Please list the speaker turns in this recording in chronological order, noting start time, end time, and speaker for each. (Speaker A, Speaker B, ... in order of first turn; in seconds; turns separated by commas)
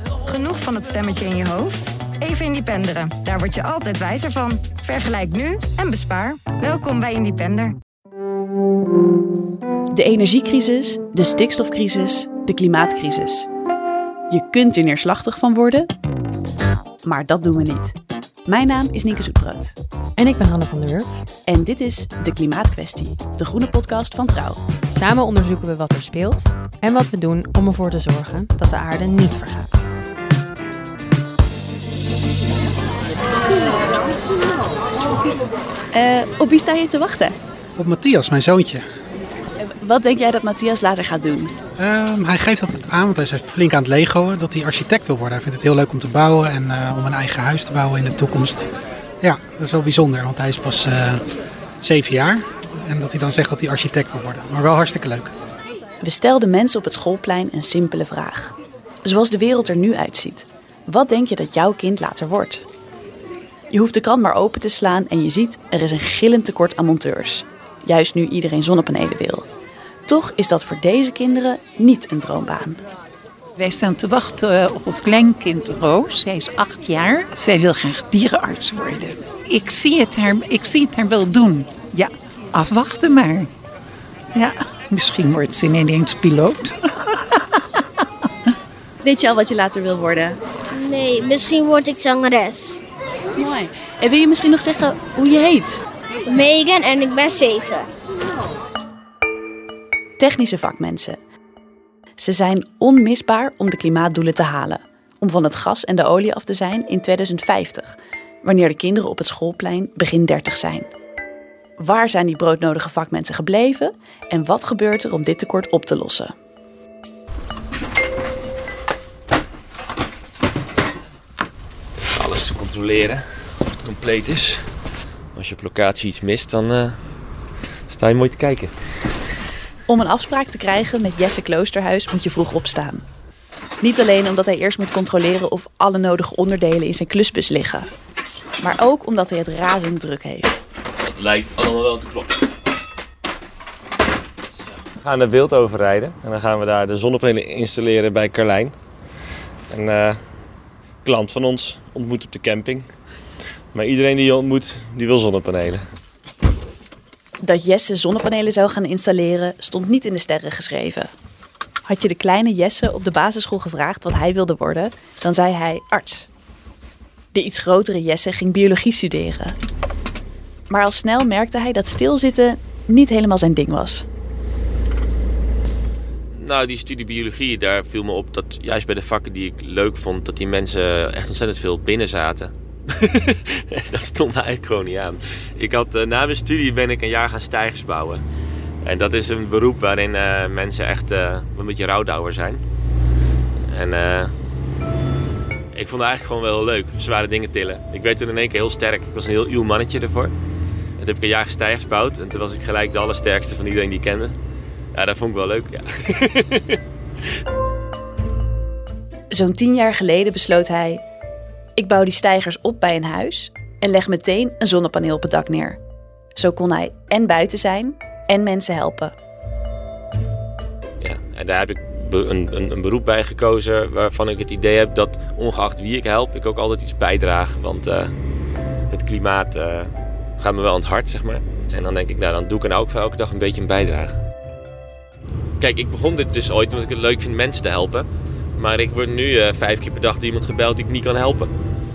Speaker A: 0.3-7.8, Speaker B: 9.9-13.5, Speaker B: 14.3-15.9, Speaker B: 17.0-18.0, Speaker B: 18.5-19.8, Speaker C: 20.2-21.2, Speaker B: 21.5-24.6, Speaker C: 24.9-29.8, Speaker B: 35.9-37.4, Speaker D: 37.8-38.8, Speaker B: 39.6-41.5, Speaker D: 41.8-48.7, Speaker D: 49.2-51.2, Speaker D: 51.8-55.3, Speaker B: 56.0-62.7, Speaker B: 63.7-69.5, Speaker B: 70.1-72.8, Speaker E: 73.6-83.5, Speaker E: 84.3-87.4, Speaker B: 89.0-90.4, Speaker F: 90.7-92.8, Speaker B: 93.4-95.8, Speaker F: 96.3-97.9, Speaker B: 100.2-101.2, Speaker B: 102.2-110.9, Speaker B: 111.8-116.3, Speaker G: 122.2-123.2, Speaker G: 123.8-124.7, Speaker G: 125.3-127.0, Speaker G: 127.9-128.7, Speaker B: 129.9-133.1, Speaker B: 133.8-137.9, Speaker B: 138.6-140.6, Speaker G: 141.1-142.3, Speaker G: 145.0-148.8, Speaker G: 149.7-150.2, Speaker G: 151.0-152.9, Speaker G: 153.7-155.8, Speaker B: 157.4-161.1, Speaker B: 161.9-166.3, Speaker B: 167.3-169.6, Speaker B: 170.7-174.1, Speaker G: 176.3-188.2, Speaker G: 188.8-192.6, Speaker G: 193.7-194.3, Speaker G: 195.7-200.3, Speaker G: 201.0-204.4, Speaker G: 204.9-206.8, Speaker B: 209.3-211.0, Speaker B: 211.8-215.8, Speaker B: 216.4-219.1, Speaker G: 221.0-228.1, Speaker G: 228.9-234.2, Speaker G: 235.6-241.5